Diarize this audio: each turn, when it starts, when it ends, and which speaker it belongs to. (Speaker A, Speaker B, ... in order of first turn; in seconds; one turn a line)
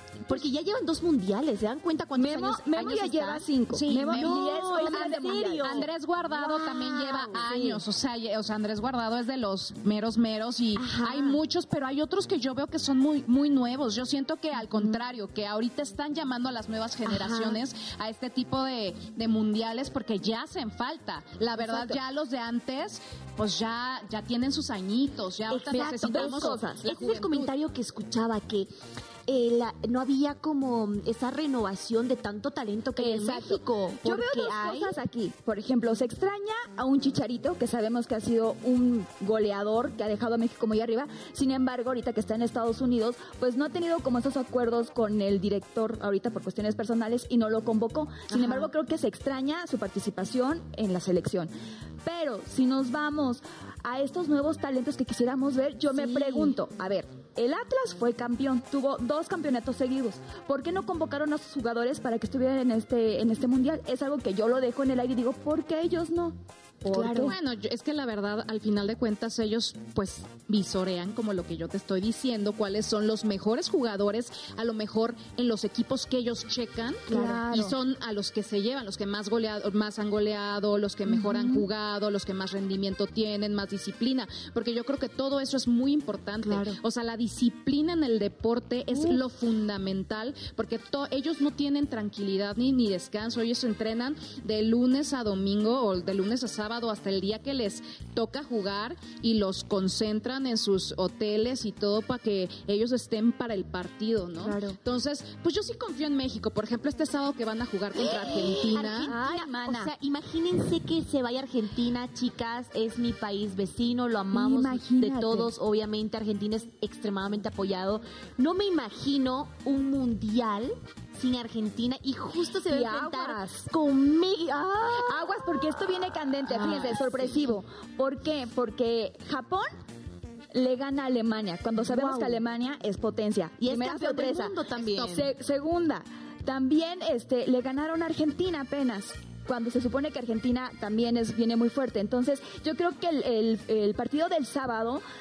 Speaker A: 0.3-3.5
Speaker B: 2.2-5.9
Speaker C: 3.7-27.5
Speaker A: 4.1-7.5
Speaker B: 7.4-7.8
Speaker A: 10.8-11.4
Speaker A: 17.1-17.6
Speaker A: 21.7-22.0
Speaker A: 25.5-28.7
Speaker B: 25.7-26.9
Speaker A: 29.3-35.0
Speaker B: 33.0-51.5
Speaker A: 48.3-48.7
Speaker B: 52.0-67.4
Speaker A: 55.9-56.5
Speaker A: 66.9-67.3
Speaker C: 67.0-109.1
Speaker B: 77.1-77.8
Speaker A: 77.1-77.4
Speaker B: 81.1-81.7
Speaker A: 86.4-86.8
Speaker B: 104.4-104.8
Speaker A: 108.0-127.4
Speaker B: 108.3-109.9
Speaker B: 114.3-115.5
Speaker B: 122.7-123.7
Speaker B: 125.0-129.8
Speaker B: 130.5-145.0
Speaker A: 131.8-132.4
Speaker A: 133.6-135.3